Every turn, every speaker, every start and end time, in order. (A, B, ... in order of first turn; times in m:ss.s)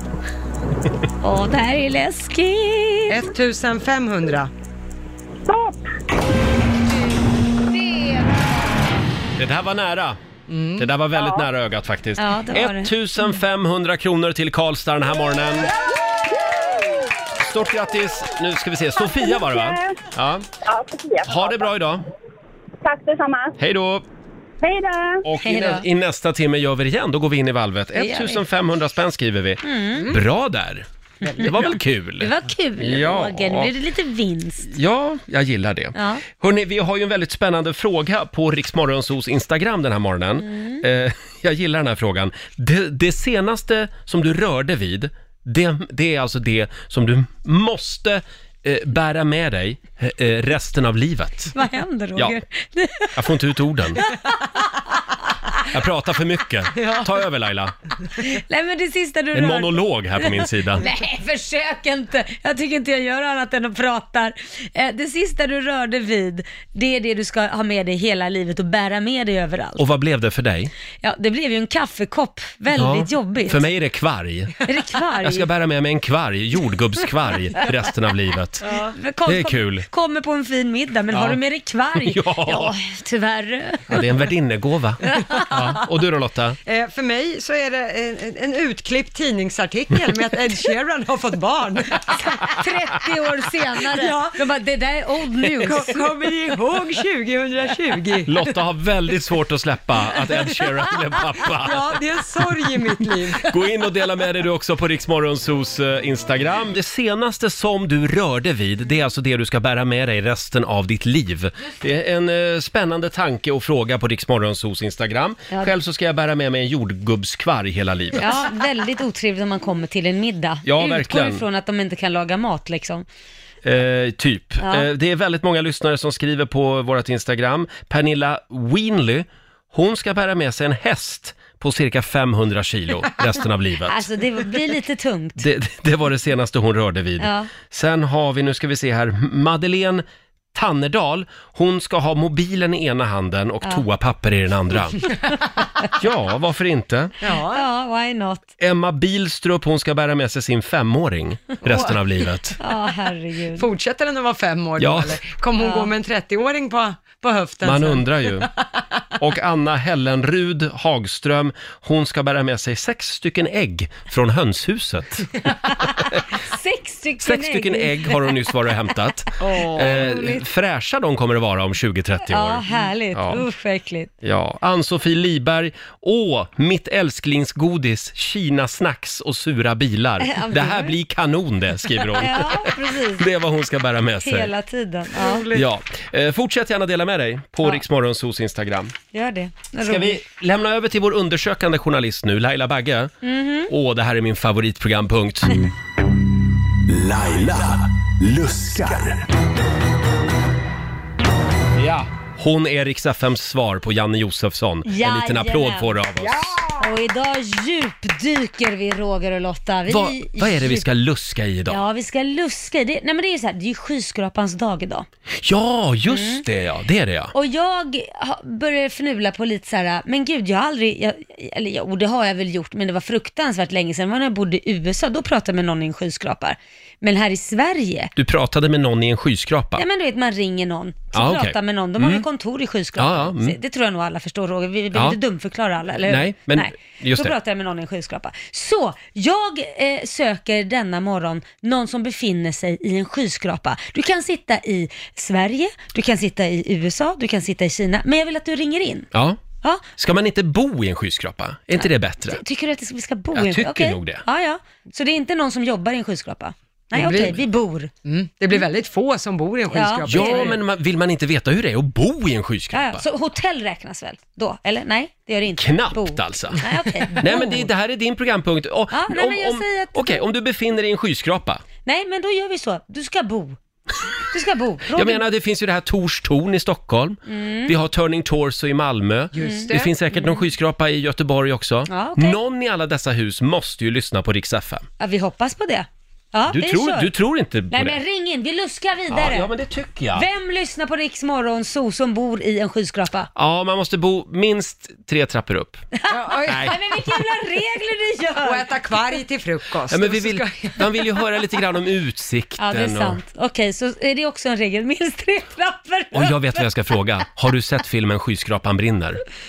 0:01.2-0:03.3 A
0:03.1-0:04.5 B
0:05.4-0:05.9 C
0:07.8-0:08.1 A
0:09.4-0:10.2 D
0:10.5-0:10.9 B
0:10.8-0:15.7 D
0:12.2-0:12.9 A
0:17.4-0:20.4 D
0:19.1-0:20.0 C
0:20.6-0:21.7 C
0:21.2-0:22.0 D
0:22.8-0:23.6 C
0:23.6-0:24.0 D
0:24.6-0:25.2 C
0:25.2-0:30.8 D
0:25.4-0:25.8 A
0:27.9-0:28.4 A
0:29.6-0:30.2 A
0:31.2-0:31.5 B
0:31.4-0:33.7 D
0:32.2-0:34.7 A
0:34.6-0:51.5 D
0:35.9-0:36.2 A
0:40.4-0:40.8 A
0:51.5-0:53.4 A
0:53.1-0:54.0 D
0:54.0-0:54.6 A
0:55.7-0:57.7 D
0:56.8-0:57.0 B
0:58.2-1:09.8 A
0:59.3-1:00.9 D
1:09.8-1:10.7 D
1:11.0-1:13.7 A
1:12.8-1:14.6 D
1:14.6-1:15.5 A
1:15.2-1:18.6 D
1:18.6-1:18.9 B
1:18.7-1:24.1 A
1:19.3-1:19.8 D
1:21.1-1:21.4 D
1:22.0-1:22.7 D
1:23.9-1:26.6 D
1:25.1-1:25.8 A
1:26.6-1:32.2 B
1:32.3-1:35.9 A
1:33.9-1:34.4 B
1:35.6-1:38.4 B
1:38.2-1:42.0 D
1:41.6-1:43.5 B
1:43.4-1:58.2 D
1:58.2-2:03.0 A
2:00.6-2:01.4 D
2:03.6-2:14.0 D
2:04.6-2:04.9 A
2:13.9-2:15.4 A
2:15.4-2:25.1 D
2:17.2-2:17.5 A
2:26.0-2:27.1 D
2:27.2-2:27.6 B
2:27.4-2:28.5 A
2:28.6-2:32.6 D
2:32.6-2:33.7 A
2:33.5-2:38.6 B
2:34.8-2:35.2 D
2:35.6-2:35.9 A
2:37.6-2:38.5 D
2:39.2-2:45.4 D
2:45.8-2:48.3 A
2:47.2-2:53.4 D
2:49.4-2:50.4 B
2:49.5-2:50.1 A
2:52.3-2:54.1 A
2:54.2-3:04.5 D
3:00.2-3:01.0 A
3:02.1-3:03.3 A
3:04.2-3:05.5 A
3:05.1-3:05.7 B
3:05.5-3:08.9 D
3:09.1-3:10.2 A
3:09.8-3:13.1 D
3:13.2-3:13.7 A
3:13.7-3:15.6 D
3:16.9-3:19.2 E
3:21.8-3:26.6 D
3:24.8-3:26.0 A
3:26.6-3:30.9 A
3:29.9-3:31.8 D
3:31.7-3:35.1 A
3:35.4-3:37.3 D
3:36.1-3:36.4 A
3:37.3-3:48.1 A
3:48.2-3:49.8 D
3:49.8-4:09.1 A
3:51.1-3:52.2 D
3:53.0-3:53.6 D
3:56.0-3:57.3 D
4:09.1-4:09.4 D
4:10.0-4:12.4 D
4:11.7-4:17.9 A
4:13.3-4:14.2 D
4:16.9-4:17.4 B
4:18.0-4:20.6 B
4:19.7-4:20.6 A
4:20.1-4:23.0 D
4:22.7-4:27.7 A
4:25.5-4:26.6 D
4:27.1-4:31.6 D
4:28.9-4:30.2 A
4:31.8-4:33.6 A
4:34.3-4:35.2 A
4:34.9-4:44.8 D
4:37.3-4:37.7 A
4:39.3-4:39.9 B
4:39.4-4:40.4 A
4:41.9-4:42.4 A
4:45.0-4:47.1 A
4:46.5-4:48.0 D
4:47.7-4:49.5 A
4:49.1-4:50.2 D
4:50.1-4:53.3 A
4:53.3-4:55.8 D
4:56.0-4:58.7 A
4:56.1-4:56.8 B
4:56.5-4:56.8 D
4:58.4-5:00.9 B
4:59.9-5:03.2 D
5:02.6-5:06.7 A
5:06.1-5:09.2 D